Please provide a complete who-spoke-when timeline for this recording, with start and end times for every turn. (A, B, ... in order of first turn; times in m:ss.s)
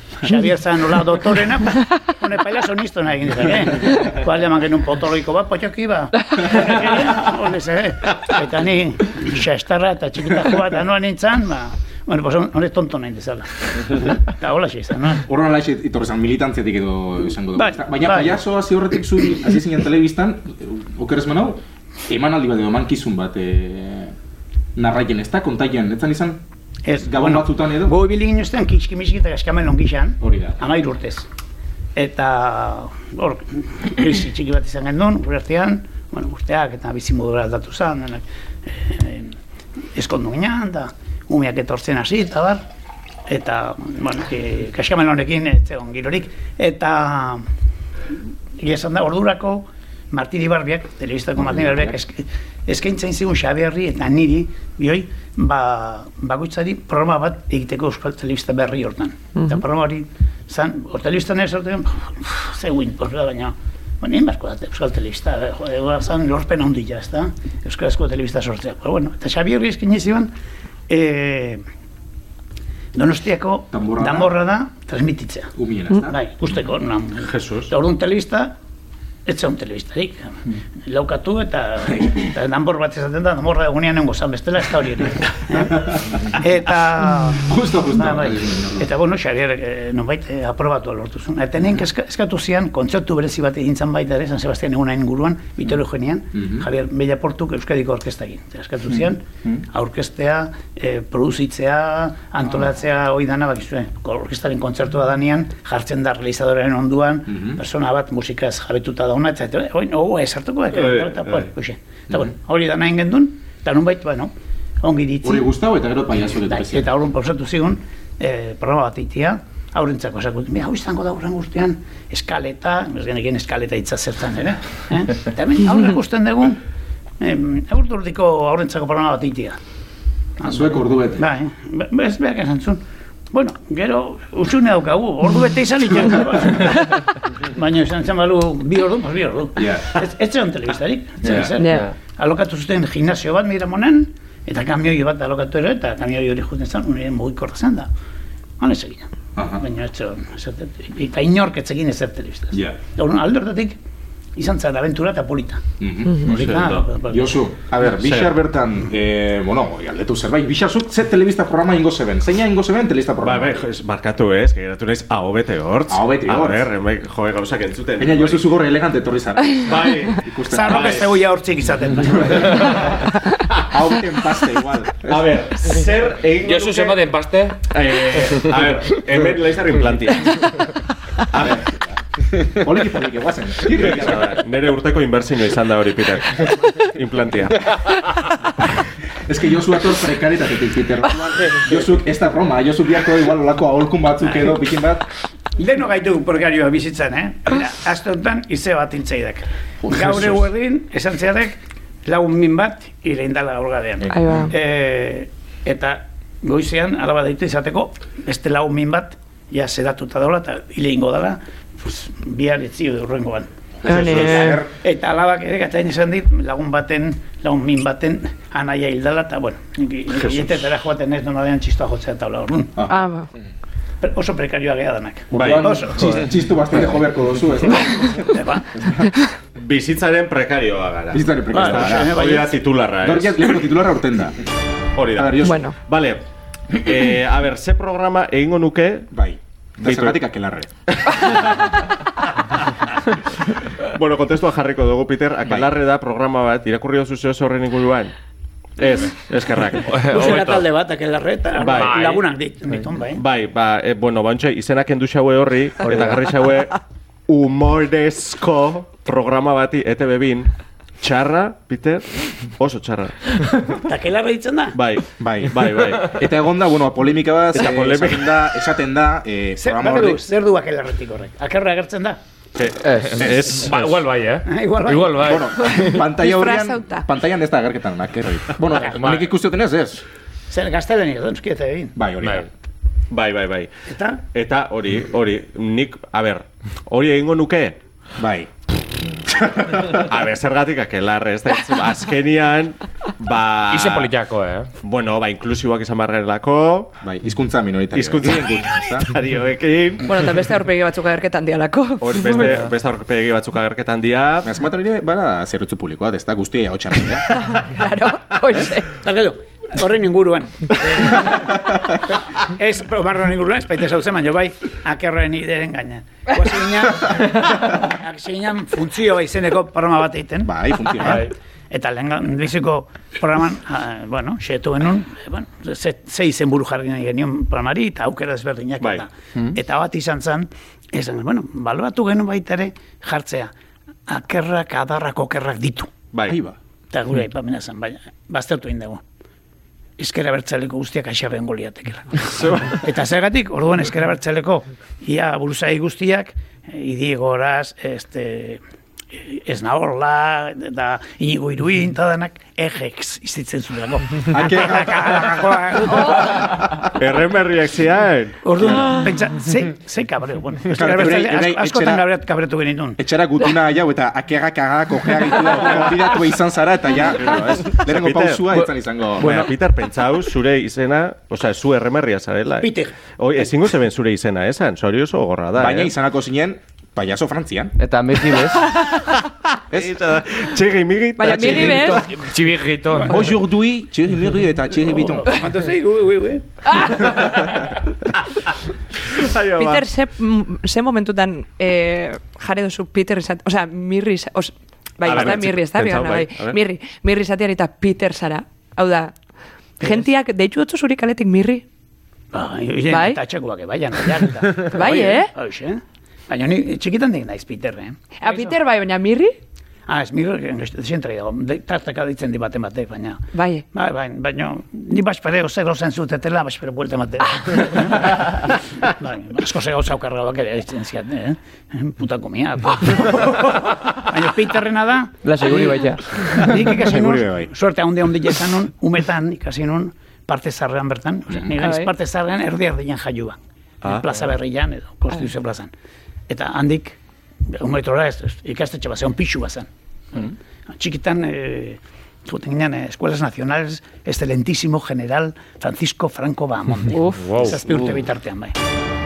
0:00.2-0:15.2 A
0:15.2-0:24.1 B
0:17.6-0:18.4 A
0:24.8-0:26.4 B
0:26.8-0:31.3 A
0:27.0-0:27.9 B
0:30.2-0:30.6 B
0:31.9-0:39.4 A
0:39.9-0:42.6 A
0:43.3-0:47.4 A
0:48.6-1:10.3 A
0:59.4-0:59.6 C
1:10.9-1:11.6 A
1:12.9-1:15.5 A
1:13.7-1:14.3 B
1:15.6-1:16.2 B
1:16.0-1:18.6 A
1:17.2-1:17.7 D
1:19.2-1:55.5 A
1:27.4-1:28.9 B
1:36.3-1:36.7 B
1:47.3-1:47.6 B
1:50.7-1:51.5 D
1:55.2-1:56.9 B
1:56.5-2:06.6 A
2:07.2-2:09.6 A
2:10.4-2:11.3 B
2:10.4-2:27.9 A
2:19.6-2:20.0 B
2:21.2-2:21.5 B
2:21.3-2:21.9 E
2:21.5-2:21.9 C
2:28.6-2:33.8 A
2:29.4-2:29.6 B
2:34.3-2:35.6 A
2:35.8-2:43.6 B
2:36.2-2:36.8 D
2:36.2-2:37.4 A
2:37.9-2:38.3 D
2:43.2-2:48.4 D
2:45.9-2:46.7 B
2:48.0-2:51.1 B
2:49.6-2:51.0 D
2:50.5-2:52.9 A
2:52.4-2:52.9 B
2:53.6-2:55.3 B
2:55.0-2:57.0 D
2:56.4-2:57.6 F
2:57.7-3:00.7 D
3:01.3-3:04.4 B
3:01.3-3:01.6 D
3:03.7-3:07.8 D
3:09.2-3:15.0 B
3:15.6-3:42.8 A
3:19.8-3:20.4 B
3:24.0-3:24.5 B
3:24.1-3:24.5 C
3:33.8-3:34.7 B
3:33.8-3:34.6 C
3:40.2-3:40.5 D
3:42.8-3:43.3 C
3:44.0-3:46.3 A
3:45.3-3:49.1 B
3:45.3-3:45.7 D
3:48.2-3:48.7 A
3:49.6-3:53.7 D
3:51.1-3:52.2 B
3:51.5-3:52.6 A
3:53.0-3:54.4 B
3:54.9-3:59.1 D
3:55.1-3:55.7 B
3:55.4-3:55.8 C
3:59.1-4:00.7 B
3:59.8-4:00.2 D
4:01.0-4:01.8 D
4:03.8-4:08.1 D
4:08.8-4:10.4 D
4:09.8-4:10.7 F
4:10.0-4:13.2 A
4:11.6-4:12.2 D
4:11.6-4:12.2 F
4:13.1-4:20.5 D
4:21.0-4:23.4 D
4:23.8-4:24.8 A
4:24.7-4:26.2 D
4:25.2-4:30.2 B
4:27.5-4:28.4 D
4:29.6-4:32.2 A
4:32.5-4:34.1 D
4:32.8-4:33.2 E
4:33.2-4:33.7 B
4:33.5-4:35.9 F
4:34.4-4:35.4 A
4:35.2-4:40.0 B
4:35.6-4:37.0 C
4:38.7-4:39.0 A
4:38.9-4:39.3 F
4:40.5-4:42.0 A
4:42.0-4:42.5 B
4:43.1-4:43.7 D
4:43.9-4:44.2 A
4:44.3-4:47.8 D
4:48.2-4:48.5 B
4:49.2-4:50.0 B
4:49.9-4:54.1 D
4:53.7-4:54.7 F
4:54.8-4:56.9 D
4:57.0-4:59.1 B
4:57.9-5:00.3 D
5:00.0-5:02.6 C
5:02.0-5:04.5 D
5:04.4-5:07.3 B
5:07.3-5:08.9 C
5:09.0-5:33.5 A
5:20.4-5:21.3 B
5:28.8-5:29.0 D
5:34.1-5:35.9 A
5:36.1-5:36.4 D
5:36.3-5:36.6 B
5:36.9-5:39.0 A
5:40.0-5:48.6 A
5:42.2-5:42.9 D
5:49.1-5:56.5 A
5:54.3-5:56.9 B
5:56.9-5:58.4 D
5:58.4-6:03.0 A
5:58.6-5:59.1 B
6:00.7-6:02.0 B
6:03.0-6:09.5 B
6:07.1-6:08.5 D
6:09.1-6:15.9 D
6:12.6-6:12.9 A
6:15.6-6:17.8 B
6:17.8-6:18.7 E
6:19.1-6:22.1 D
6:21.2-6:22.2 C
6:21.3-6:21.8 B
6:22.0-6:23.1 F
6:23.1-6:25.4 B
6:24.9-6:27.2 A
6:26.7-6:27.3 C
6:29.1-6:29.9 D
6:29.6-6:39.1 C
6:35.0-6:36.6 D
6:39.8-6:41.6 C
6:42.3-6:48.6 A
6:42.9-6:43.2 C
6:44.7-6:45.3 C
6:44.8-6:45.1 B
6:48.2-6:49.4 C
6:49.9-7:05.7 A
6:53.3-6:53.6 C
7:05.2-7:06.4 E
7:06.2-7:07.5 B
7:06.2-7:15.7 A
7:11.6-7:11.9 C
7:16.3-7:28.5 A
7:26.9-7:27.4 C
7:27.2-7:27.6 F